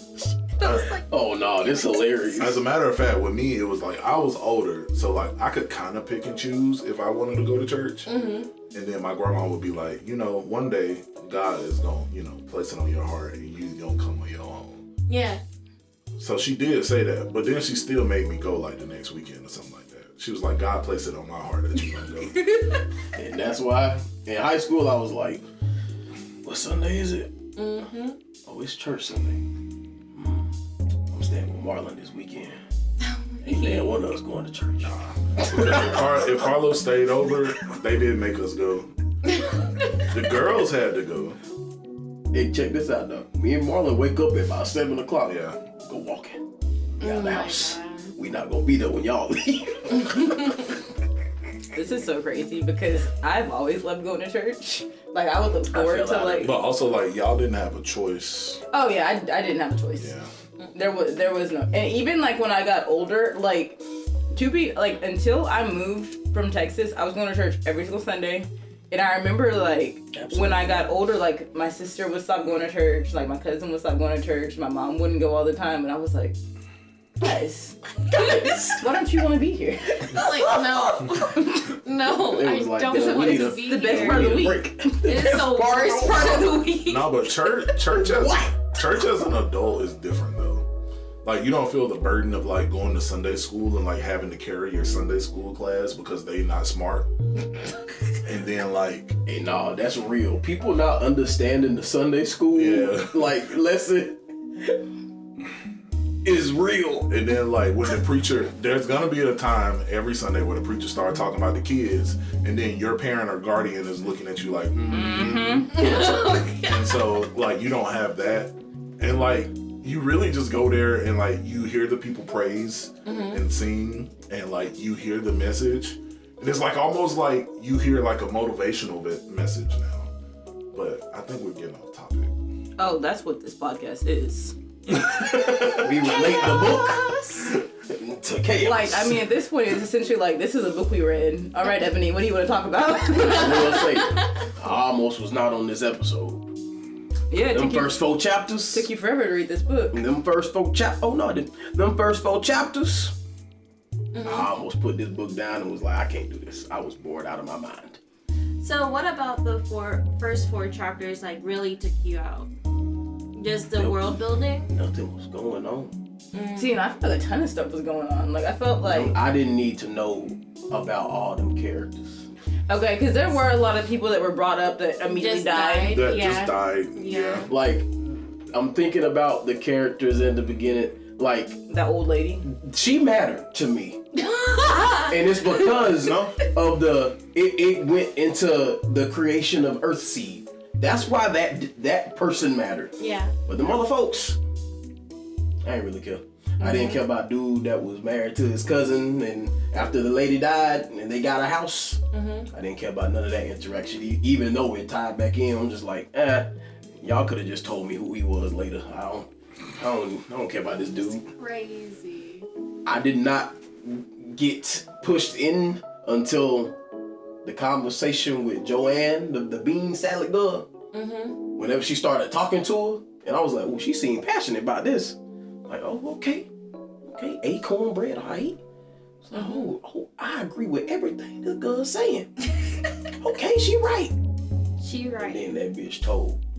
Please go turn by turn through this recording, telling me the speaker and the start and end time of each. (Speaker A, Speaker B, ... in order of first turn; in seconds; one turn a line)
Speaker A: 0.4-2.0
Speaker B: 0.6-0.9
Speaker C: 1.1-2.6
Speaker B: 2.4-8.1
Speaker A: 8.1-8.5
Speaker B: 8.7-14.8
Speaker A: 15.1-15.4
Speaker B: 16.2-22.5
Speaker A: 22.4-22.8
Speaker C: 23.1-25.4
Speaker C: 26.4-27.3
Speaker A: 27.6-28.2
Speaker C: 28.4-29.4
Speaker C: 30.1-30.5
Speaker C: 31.1-32.6
Speaker A: 33.0-33.9
Speaker C: 33.4-36.0
Speaker B: 34.8-38.9
Speaker B: 40.0-41.4
Speaker C: 42.3-46.4
Speaker B: 45.2-45.6
Speaker C: 47.0-50.5
Speaker A: 47.0-48.1
Speaker D: 51.7-56.5
Speaker C: 55.7-56.5
Speaker B: 56.4-58.6
Speaker D: 58.7-60.1
Speaker B: 60.0-60.3
Speaker D: 60.7-63.8
Speaker D: 64.3-76.4
Speaker C: 70.1-70.9
Speaker D: 77.2-80.3
Speaker C: 78.1-78.8
Speaker A: 80.1-87.2
Speaker C: 80.1-81.3
Speaker C: 82.1-86.5
Speaker D: 83.0-84.9
Speaker B: 86.1-90.7
Speaker C: 87.9-88.5
Speaker B: 91.2-97.1
Speaker B: 98.2-99.2
Speaker C: 99.2-104.8
Speaker B: 102.5-103.4
Speaker C: 106.2-107.1
Speaker B: 107.1-130.1
Speaker D: 114.9-115.8
Speaker A: 115.7-117.0
Speaker A: 123.0-123.4
Speaker B: 130.7-132.3
Speaker D: 132.8-134.5
Speaker B: 134.9-135.9
Speaker C: 135.7-139.2
Speaker A: 136.0-137.5
Speaker D: 138.6-144.0
Speaker C: 143.2-146.5
Speaker A: 143.5-144.1
Speaker D: 147.3-148.0
Speaker C: 147.5-148.9
Speaker D: 148.7-149.9
Speaker C: 149.9-153.2
Speaker A: 154.1-154.5
Speaker C: 154.2-158.0
Speaker A: 158.6-162.5
Speaker A: 163.3-164.7
Speaker C: 163.7-165.9
Speaker A: 166.3-166.8
Speaker D: 166.6-169.1
Speaker C: 168.8-172.3
Speaker D: 172.7-176.0
Speaker A: 175.1-177.5
Speaker B: 175.8-177.5
Speaker C: 177.5-177.9
Speaker C: 178.5-181.6
Speaker D: 181.7-182.5
Speaker C: 182.4-184.0
Speaker A: 184.2-185.7
Speaker C: 184.9-194.4
Speaker B: 186.0-186.4
Speaker A: 193.0-193.3
Speaker C: 195.6-206.5
Speaker A: 196.6-197.0
Speaker A: 202.1-202.5
Speaker C: 207.0-211.3
Speaker A: 211.3-212.5
Speaker C: 212.8-216.8
Speaker C: 217.4-220.7
Speaker A: 220.9-221.4
Speaker C: 221.6-226.5
Speaker C: 227.0-228.6
Speaker C: 229.2-232.3
Speaker A: 229.3-229.7
Speaker C: 233.2-234.1
Speaker A: 234.8-235.5
Speaker C: 235.2-236.4